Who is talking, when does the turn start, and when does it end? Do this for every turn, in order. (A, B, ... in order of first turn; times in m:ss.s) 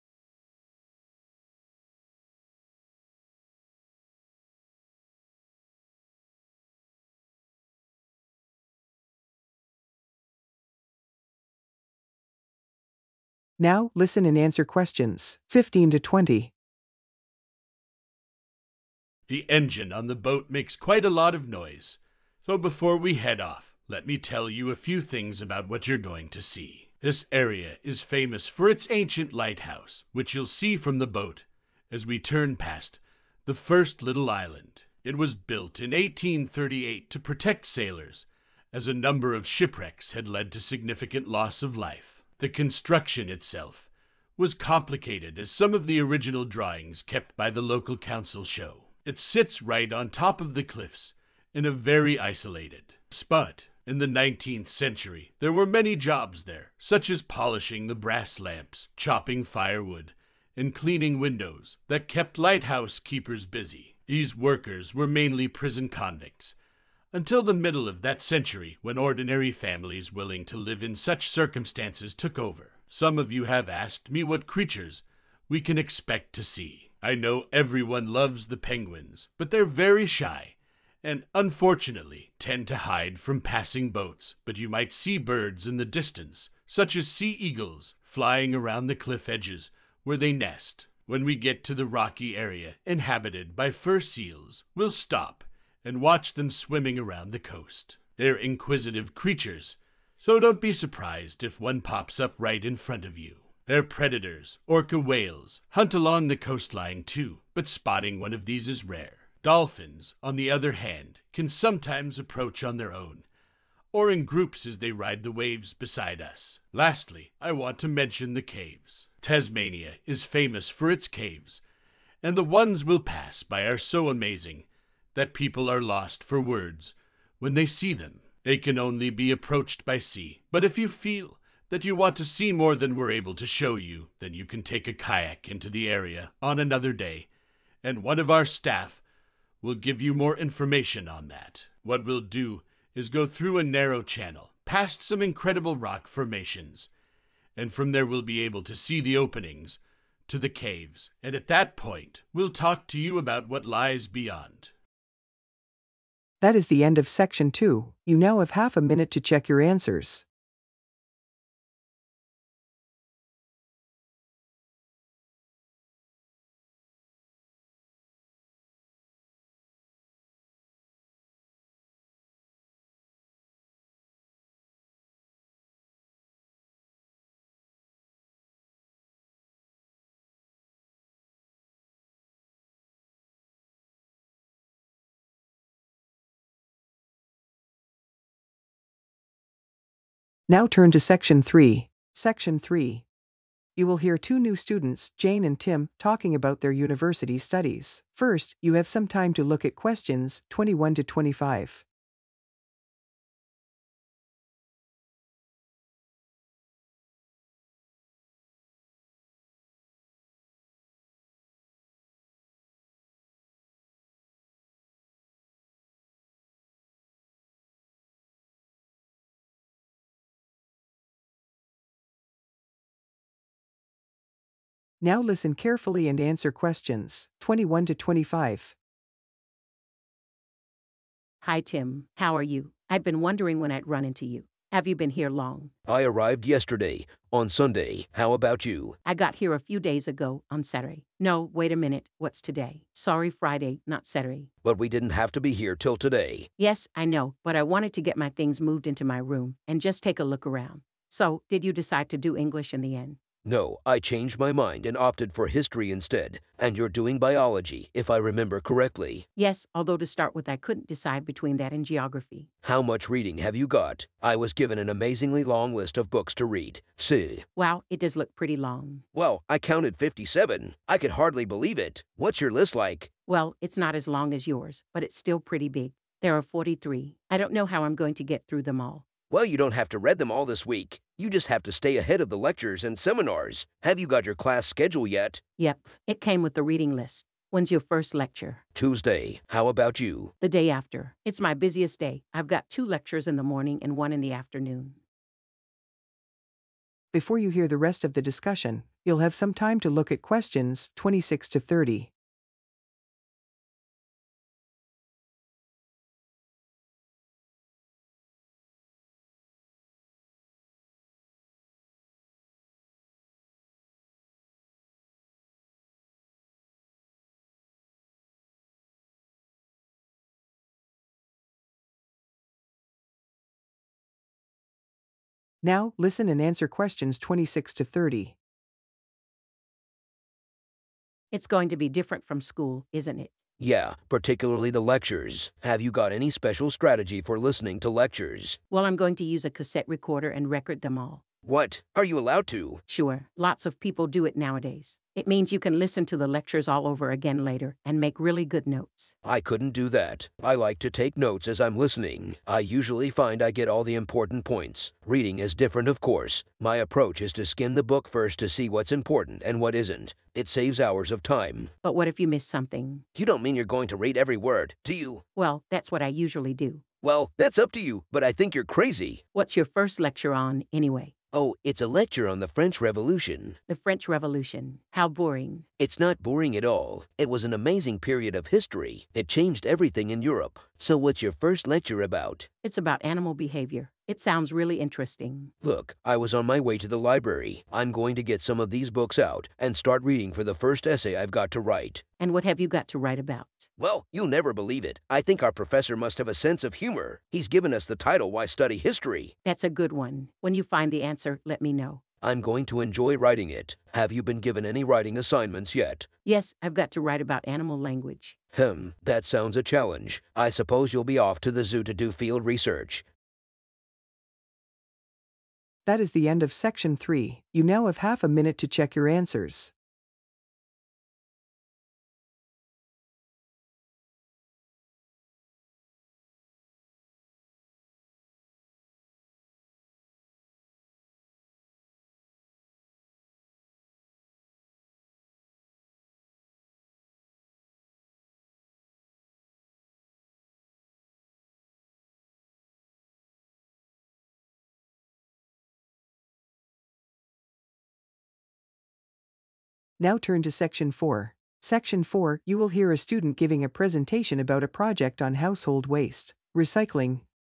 0:13.6-0:16.5 A
0:19.3-1:06.5 B
1:07.1-1:53.2 B
1:53.9-2:01.6 B
2:02.2-2:17.3 B
2:17.8-2:19.0 B
2:19.6-2:26.9 B
2:27.6-2:34.7 B
2:36.4-2:40.2 A
3:10.5-3:13.0 A
3:13.8-3:21.8 A
3:45.0-3:48.7 A
3:51.4-3:55.7 C
3:55.9-3:59.0 D
3:59.0-4:04.5 C
4:04.6-4:06.5 D
4:06.6-4:13.2 C
4:13.4-4:19.2 D
4:19.4-4:22.5 C
4:22.6-4:27.4 D
4:27.6-4:29.0 C
4:29.1-4:33.1 D
4:33.3-4:39.1 C
4:39.3-4:45.4 D
4:45.6-4:48.6 C
4:48.7-4:50.3 D
4:50.4-4:55.0 C
4:57.1-5:02.1 A
5:25.6-5:28.4 A
5:31.3-5:33.3 C
5:33.6-5:38.6 D
5:38.7-5:41.2 C
5:41.4-5:42.8 D
5:42.9-5:49.1 C
5:49.2-6:01.7 D
6:01.8-6:03.0 C
6:03.1-6:05.2 D
6:05.4-6:06.8 C
6:07.0-6:09.2 D
6:09.3-6:11.1 C
6:11.3-6:13.6 D
6:13.7-6:15.6 C
6:15.8-6:22.5 D
6:22.6-6:25.5 C
6:25.6-6:32.0 D
6:32.2-6:33.7 C
6:33.8-6:39.3 D
6:39.4-6:42.0 C
6:42.2-6:46.1 D
6:46.2-6:48.4 C
6:48.5-6:53.0 D
6:55.8-6:59.7 A
7:30.0-7:37.2 A